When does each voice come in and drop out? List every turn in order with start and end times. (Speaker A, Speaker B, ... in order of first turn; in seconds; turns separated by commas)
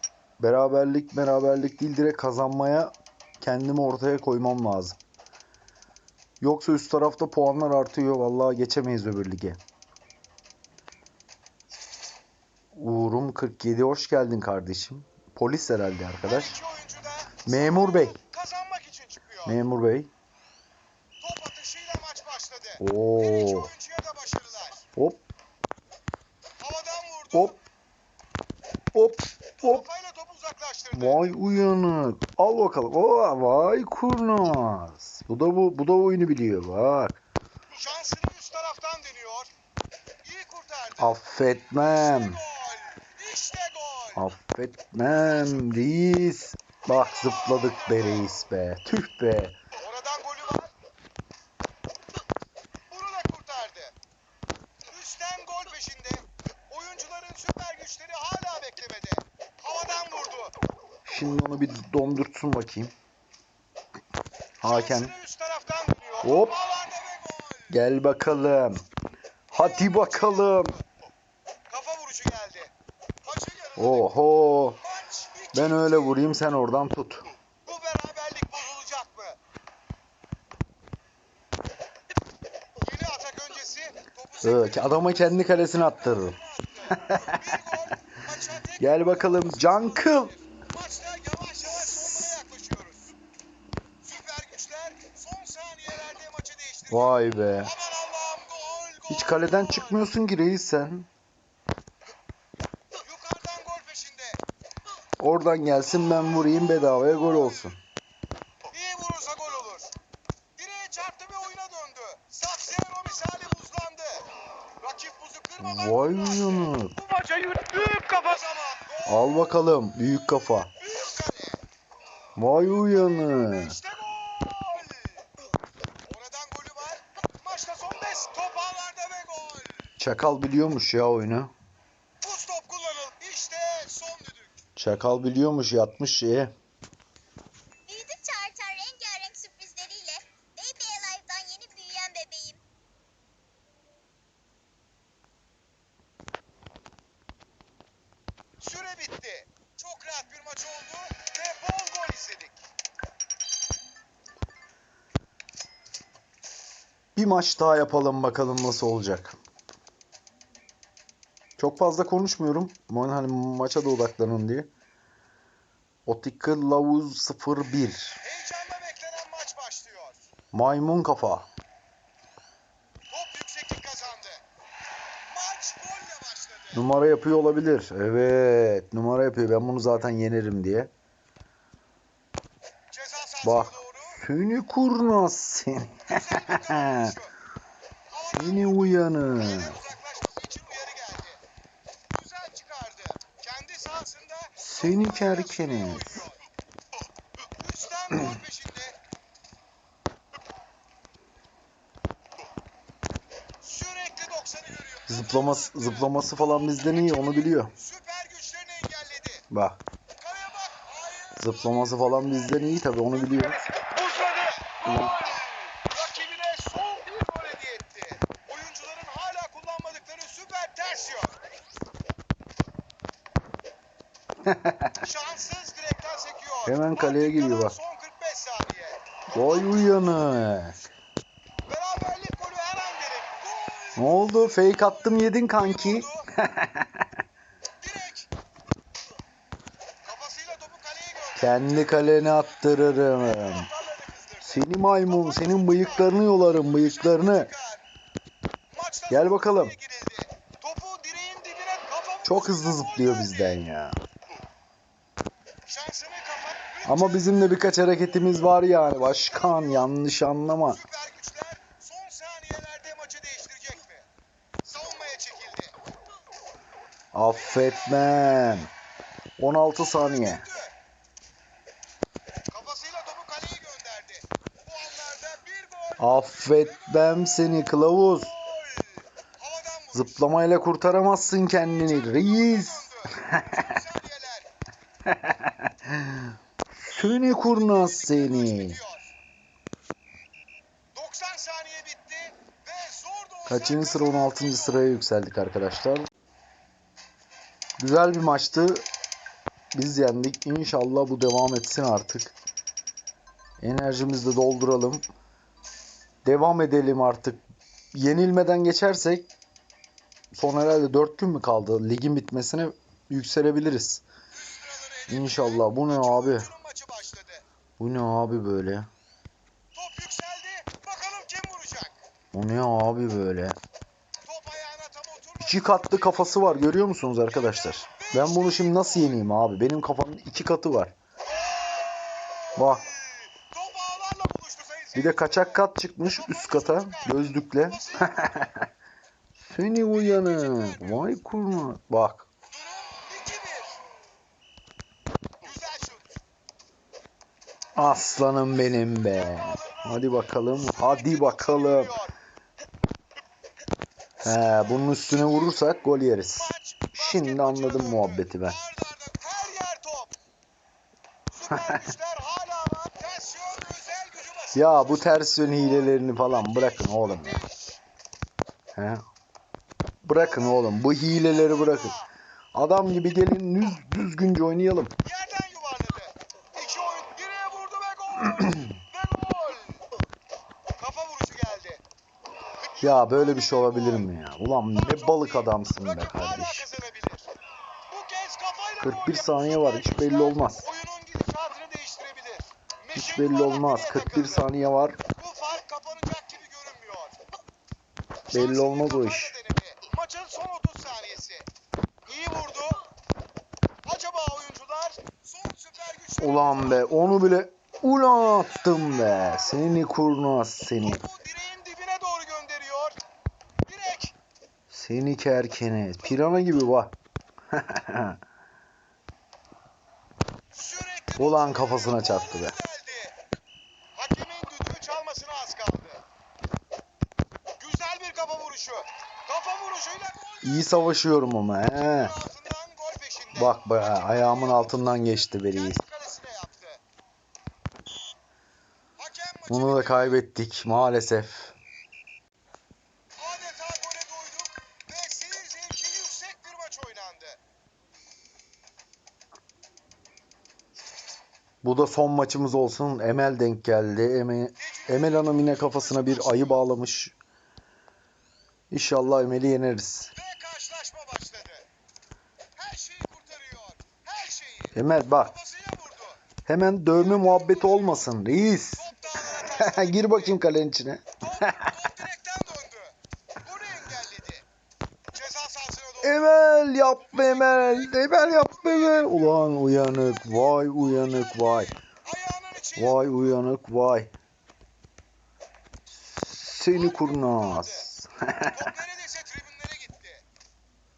Speaker A: 0.4-5.0, Speaker A: 6.4-9.6, Speaker A: 12.7-16.6, Speaker B: 16.2-19.6, Speaker A: 17.4-18.2, Speaker A: 19.4-20.1, Speaker B: 21.2-24.9, Speaker A: 22.8-23.7, Speaker A: 25.0-25.2, Speaker B: 26.6-27.6, Speaker A: 28.9-29.9, Speaker B: 29.6-31.4, Speaker A: 30.9-37.2, Speaker B: 37.7-39.5, Speaker B: 40.2-41.2, Speaker A: 41.0-42.4, Speaker B: 41.8-44.2, Speaker A: 44.1-49.6, Speaker B: 45.2-45.7, Speaker B: 46.9-48.4, Speaker B: 49.8-50.7, Speaker B: 52.9-53.9, Speaker B: 54.9-60.6, Speaker A: 61.0-62.9, Speaker A: 64.6-65.1, Speaker B: 64.6-67.8, Speaker A: 66.2-66.6, Speaker A: 67.7-68.8, Speaker B: 69.5-70.8, Speaker A: 69.5-70.8, Speaker B: 71.7-74.2, Speaker A: 73.8-74.8, Speaker B: 74.8-76.2, Speaker A: 75.5-77.3, Speaker B: 77.7-79.4, Speaker B: 82.8-93.2, Speaker A: 84.4-86.4, Speaker A: 86.9-87.6, Speaker A: 88.8-90.3, Speaker A: 91.7-92.3, Speaker B: 94.0-100.1, Speaker A: 96.9-97.7, Speaker A: 99.1-101.1, Speaker B: 103.0-104.4, Speaker A: 105.2-107.8, Speaker B: 106.0-107.7, Speaker B: 108.7-109.9, Speaker B: 110.6-119.6, Speaker A: 115.6-116.9, Speaker A: 119.0-120.7, Speaker B: 120.7-121.6, Speaker A: 122.4-123.8, Speaker B: 122.7-125.3, Speaker B: 126.0-129.9, Speaker A: 130.0-131.5, Speaker B: 132.2-134.6, Speaker A: 134.8-136.5, Speaker C: 137.9-142.6, Speaker B: 148.6-152.6, Speaker A: 157.2-159.4, Speaker A: 161.6-164.7, Speaker A: 166.1-168.2, Speaker B: 168.2-170.2, Speaker A: 170.5-171.5, Speaker B: 173.1-174.4, Speaker B: 175.3-176.9, Speaker A: 176.7-180.9, Speaker B: 182.9-184.2, Speaker A: 183.4-187.1, Speaker B: 186.1-187.3, Speaker B: 188.1-191.4, Speaker A: 188.3-189.8, Speaker B: 192.1-196.4, Speaker A: 194.6-196.3, Speaker B: 197.6-199.0, Speaker B: 203.6-209.5, Speaker A: 205.1-207.7, Speaker A: 209.5-209.8, Speaker B: 210.2-221.4, Speaker A: 211.4-213.6, Speaker A: 214.8-215.2, Speaker A: 224.5-224.9, Speaker B: 225.0-230.0, Speaker A: 226.7-227.8, Speaker A: 229.3-230.8, Speaker B: 231.7-236.3, Speaker A: 234.0-237.0, Speaker B: 237.8-238.3, Speaker B: 240.0-242.4, Speaker A: 241.4-243.7, Speaker B: 243.2-247.8, Speaker A: 244.4-247.5, Speaker B: 248.7-253.6, Speaker A: 249.1-249.8, Speaker A: 252.2-254.0, Speaker B: 255.7-257.6, Speaker A: 256.9-260.8, Speaker B: 258.9-259.9, Speaker B: 260.6-264.1, Speaker B: 264.6-265.8, Speaker A: 267.1-268.7, Speaker B: 267.4-268.6, Speaker A: 269.4-270.4, Speaker B: 269.8-270.7, Speaker B: 272.5-280.3, Speaker A: 276.0-278.3, Speaker A: 279.9-283.6, Speaker B: 281.6-284.5, Speaker A: 285.1-288.8, Speaker B: 287.2-289.1, Speaker B: 290.9-294.9, Speaker A: 293.5-296.1, Speaker A: 297.8-298.9, Speaker A: 299.7-302.4, Speaker A: 303.6-305.1, Speaker A: 306.2-309.3, Speaker A: 310.3-314.0, Speaker B: 314.3-317.4, Speaker A: 315.1-316.5, Speaker A: 317.8-318.9, Speaker B: 319.7-322.0, Speaker A: 322.3-323.6, Speaker B: 324.2-326.8, Speaker A: 325.4-330.9, Speaker B: 327.3-329.2, Speaker B: 331.2-338.5, Speaker A: 332.6-332.9, Speaker A: 334.9-338.6, Speaker A: 339.4-342.3, Speaker B: 339.9-341.1, Speaker B: 342.5-343.8, Speaker B: 345.4-346.2, Speaker A: 347.8-352.0, Speaker B: 348.9-352.1, Speaker A: 354.2-358.6, Speaker B: 356.4-360.2, Speaker B: 361.3-367.8, Speaker A: 361.5-361.8, Speaker A: 364.6-367.4, Speaker A: 368.8-369.0, Speaker A: 370.0-372.0, Speaker B: 370.2-372.1, Speaker A: 372.5-375.0, Speaker B: 375.0-379.8, Speaker B: 380.8-381.8, Speaker A: 382.8-386.7, Speaker B: 382.8-384.1, Speaker B: 384.7-387.3, Speaker B: 387.9-394.5, Speaker A: 388.8-390.7, Speaker A: 392.9-395.0, Speaker B: 395.1-397.2, Speaker B: 398.3-401.5, Speaker A: 398.3-399.4, Speaker B: 402.1-402.8, Speaker B: 403.9-407.4, Speaker A: 406.2-411.0, Speaker B: 408.2-409.8, Speaker B: 410.8-413.0, Speaker B: 413.6-414.1, Speaker A: 414.7-416.9, Speaker A: 417.5-418.2, Speaker B: 420.5-423.2, Speaker A: 421.2-422.6, Speaker B: 423.9-426.0, Speaker B: 427.6-431.0, Speaker A: 430.4-432.1, Speaker B: 431.7-436.8, Speaker A: 433.3-435.8, Speaker B: 439.0-440.2, Speaker A: 439.5-441.6, Speaker B: 443.2-447.4, Speaker A: 451.6-457.2, Speaker B: 454.6-456.7, Speaker A: 458.7-460.1, Speaker B: 460.1-461.7, Speaker B: 462.6-466.2, Speaker A: 464.7-465.3, Speaker A: 466.5-471.7, Speaker B: 466.9-468.1, Speaker B: 468.7-470.4, Speaker B: 471.2-474.5, Speaker B: 475.1-476.4, Speaker A: 476.0-481.7, Speaker B: 477.0-483.2, Speaker A: 482.8-484.1, Speaker A: 485.9-488.7, Speaker B: 486.7-487.9, Speaker B: 488.4-490.2